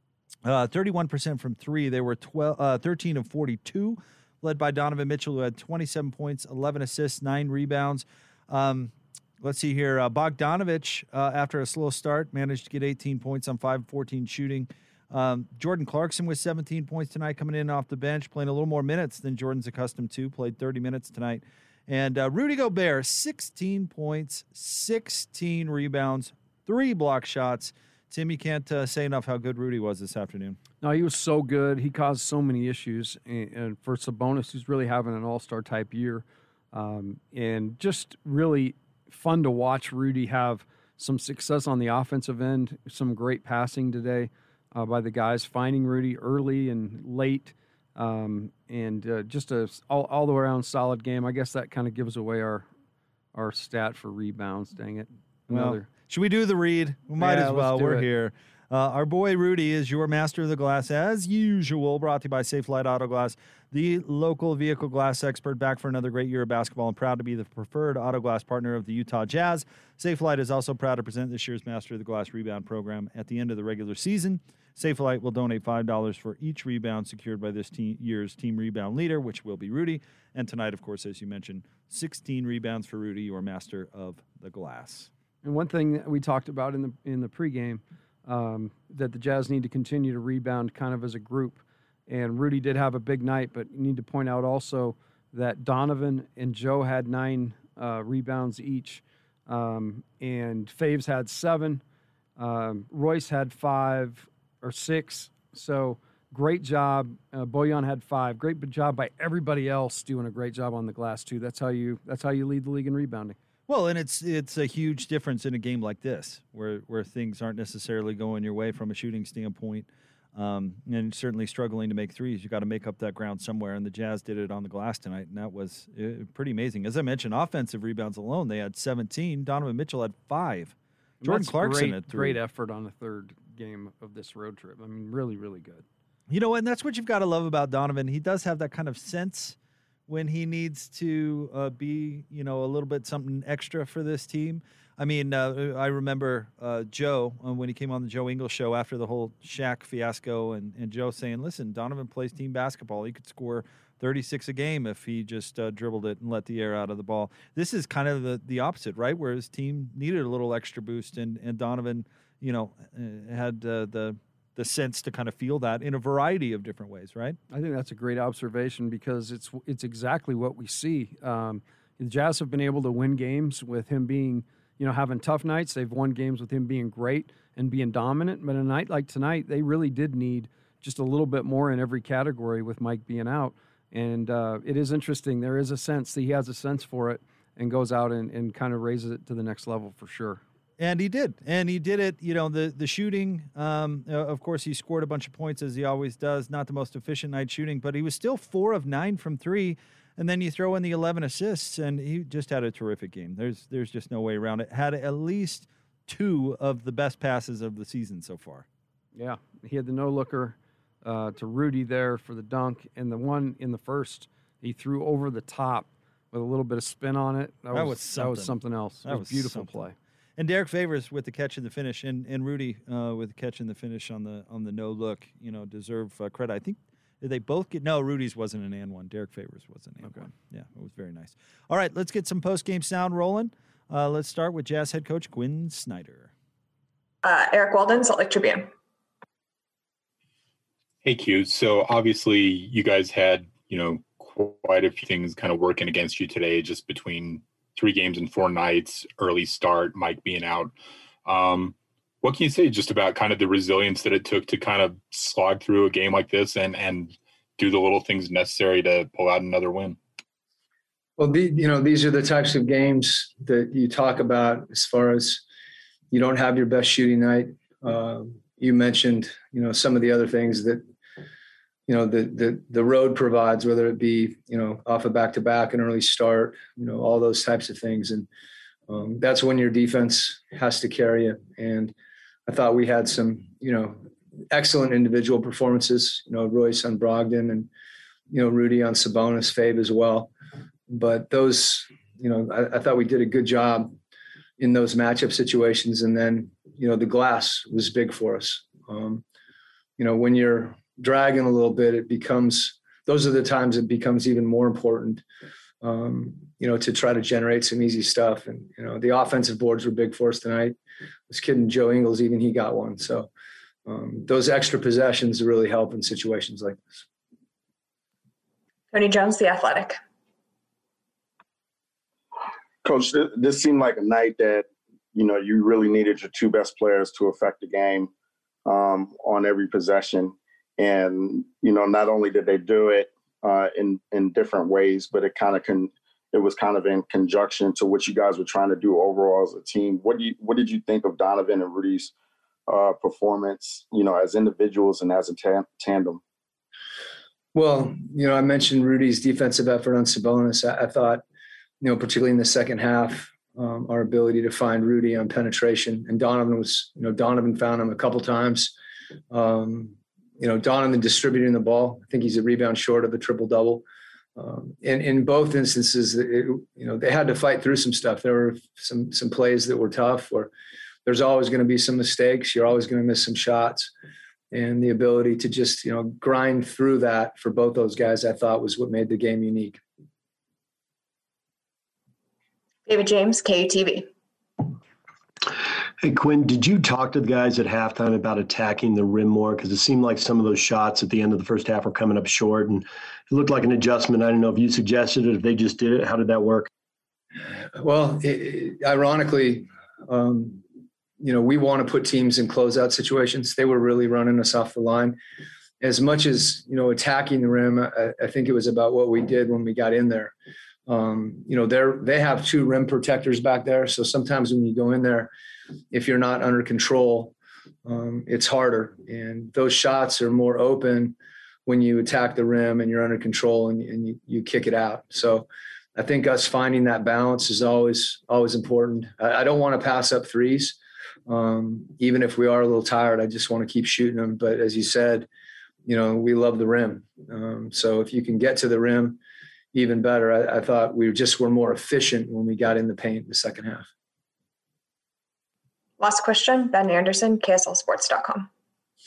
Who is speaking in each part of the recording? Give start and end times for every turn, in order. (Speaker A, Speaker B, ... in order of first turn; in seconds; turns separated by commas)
Speaker A: 0.4-30.6, Speaker B: 30.8-52.6, Speaker B: 53.3-55.9, Speaker A: 55.5-85.1, Speaker B: 57.2-58.1, Speaker B: 85.4-101.8, Speaker B: 102.4-113.4, Speaker A: 113.7-132.4, Speaker B: 131.2-135.8, Speaker A: 136.3-139.6, Speaker A: 140.1-167.4, Speaker B: 167.5-190.4, Speaker A: 190.8-208.7, Speaker B: 209.1-219.9, Speaker A: 217.7-236.3, Speaker C: 237.2-238.7, Speaker D: 241.0-250.7, Speaker D: 251.2-260.0, Speaker E: 261.2-265.4, Speaker E: 266.1-270.8, Speaker E: 271.9-278.3, Speaker E: 278.9-281.9, Speaker E: 282.5-287.7, Speaker E: 288.3-290.3, Speaker E: 290.9-293.9, Speaker E: 294.6-299.2, Speaker E: 300.0-305.2, Speaker E: 305.8-310.8, Speaker E: 311.3-313.3, Speaker E: 313.9-316.8, Speaker C: 318.9-320.0, Speaker F: 322.8-328.1, Speaker F: 328.6-342.1, Speaker F: 342.7-346.2, Speaker E: 347.5-351.2, Speaker E: 351.8-358.7, Speaker E: 359.3-363.8, Speaker E: 364.4-370.5, Speaker E: 371.0-373.9, Speaker E: 374.5-379.8, Speaker C: 382.9-384.1, Speaker G: 386.0-396.7, Speaker E: 397.7-400.6, Speaker E: 401.2-405.2, Speaker E: 405.8-410.3, Speaker E: 410.9-415.3, Speaker E: 415.9-417.3, Speaker E: 417.8-421.1, Speaker E: 421.6-435.3, Speaker E: 435.9-439.2, Speaker E: 439.7-443.9, Speaker C: 446.0-448.5